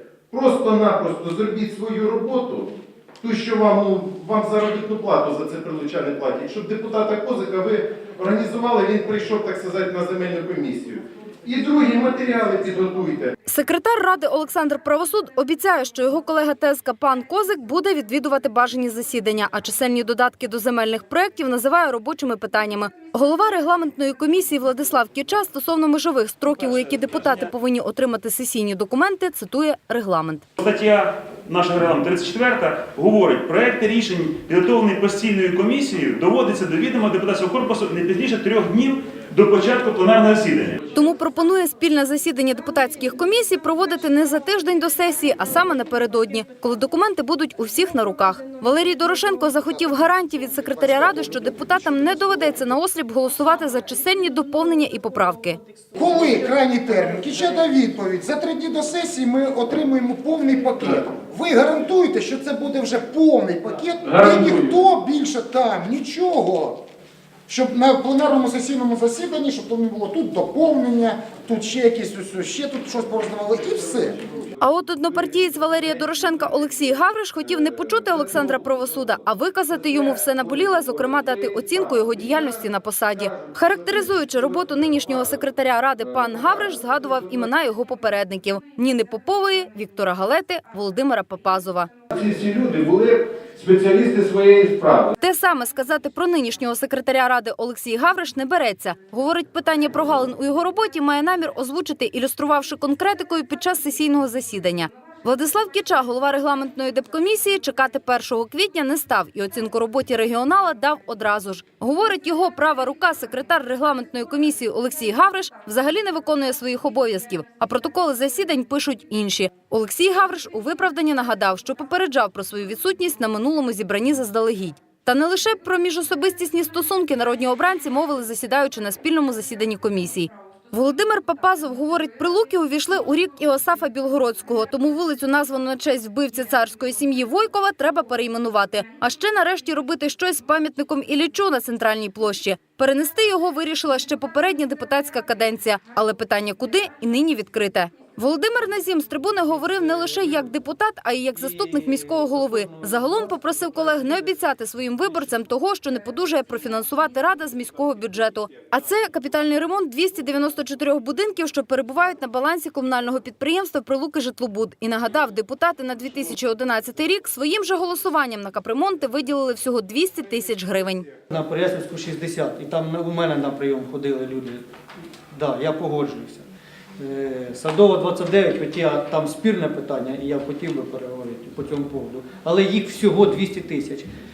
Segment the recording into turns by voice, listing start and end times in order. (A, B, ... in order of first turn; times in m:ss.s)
0:00.3-0:13.3 A
0:13.5-0:30.4 B
0:30.6-0:40.8 C
0:40.9-0:55.6 B
0:56.0-1:06.8 D
1:07.5-1:14.2 D
1:14.6-1:31.9 B
1:32.1-1:35.1 A
1:35.2-2:51.1 B
2:31.5-2:32.8 E
2:51.3-2:54.6 E
2:55.3-2:56.5 E
2:57.0-3:04.1 E